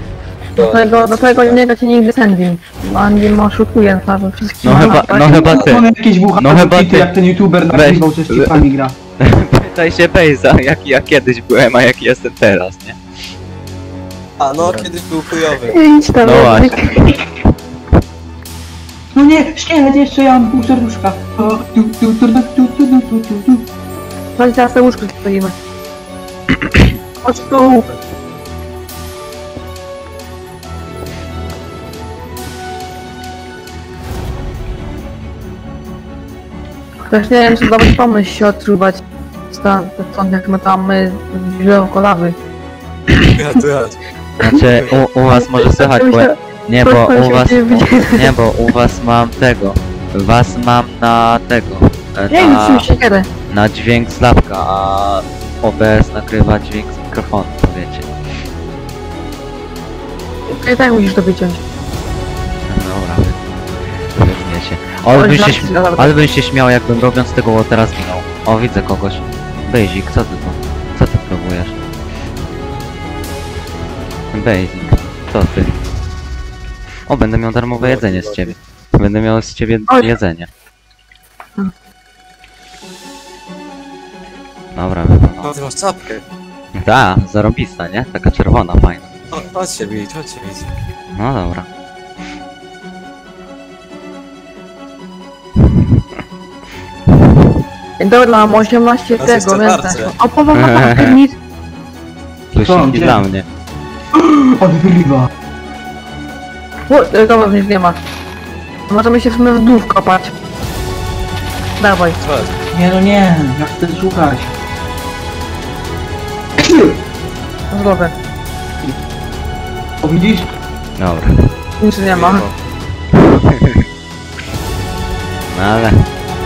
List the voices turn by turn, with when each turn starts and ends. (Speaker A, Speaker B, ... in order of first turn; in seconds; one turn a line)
Speaker A: 0.6-5.6
Speaker B: 0.6-1.6
Speaker C: 4.6-7.1
Speaker D: 5.5-8.9
Speaker C: 7.7-8.6
Speaker C: 9.2-13.0
Speaker B: 14.4-15.8
Speaker C: 14.6-14.9
Speaker A: 15.7-17.1
Speaker C: 16.2-16.9
Speaker D: 19.1-23.6
Speaker A: 24.4-25.5
Speaker A: 27.2-27.9
Speaker A: 37.1-42.4
Speaker B: 43.2-44.0
Speaker C: 44.4-52.9
Speaker A: 45.3-48.3
Speaker A: 52.3-53.3
Speaker C: 53.5-58.1
Speaker A: 60.5-61.6
Speaker C: 62.6-63.4
Speaker C: 64.1-71.8
Speaker A: 65.1-66.1
Speaker C: 74.3-75.8
Speaker C: 77.1-80.5
Speaker B: 77.8-78.5
Speaker C: 84.7-85.5
Speaker B: 85.4-86.2
Speaker C: 86.7-89.1
Speaker B: 89.3-90.7
Speaker C: 91.1-91.7
Speaker A: 98.0-101.3
Speaker B: 99.2-100.1
Speaker C: 100.5-101.2
Speaker C: 102.5-103.4
Speaker D: 102.6-103.2
Speaker D: 104.1-105.3
Speaker A: 106.9-108.0
Speaker A: 108.9-110.3
Speaker A: 111.8-112.2
Speaker B: 112.2-112.5
Speaker D: 112.7-114.5
Speaker D: 116.6-116.9
Speaker A: 117.7-118.1
Speaker D: 120.0-120.5
Speaker C: 121.0-121.5
Speaker A: 121.8-122.4
Speaker B: 122.1-122.5
Speaker C: 123.1-123.8
Speaker C: 125.5-126.1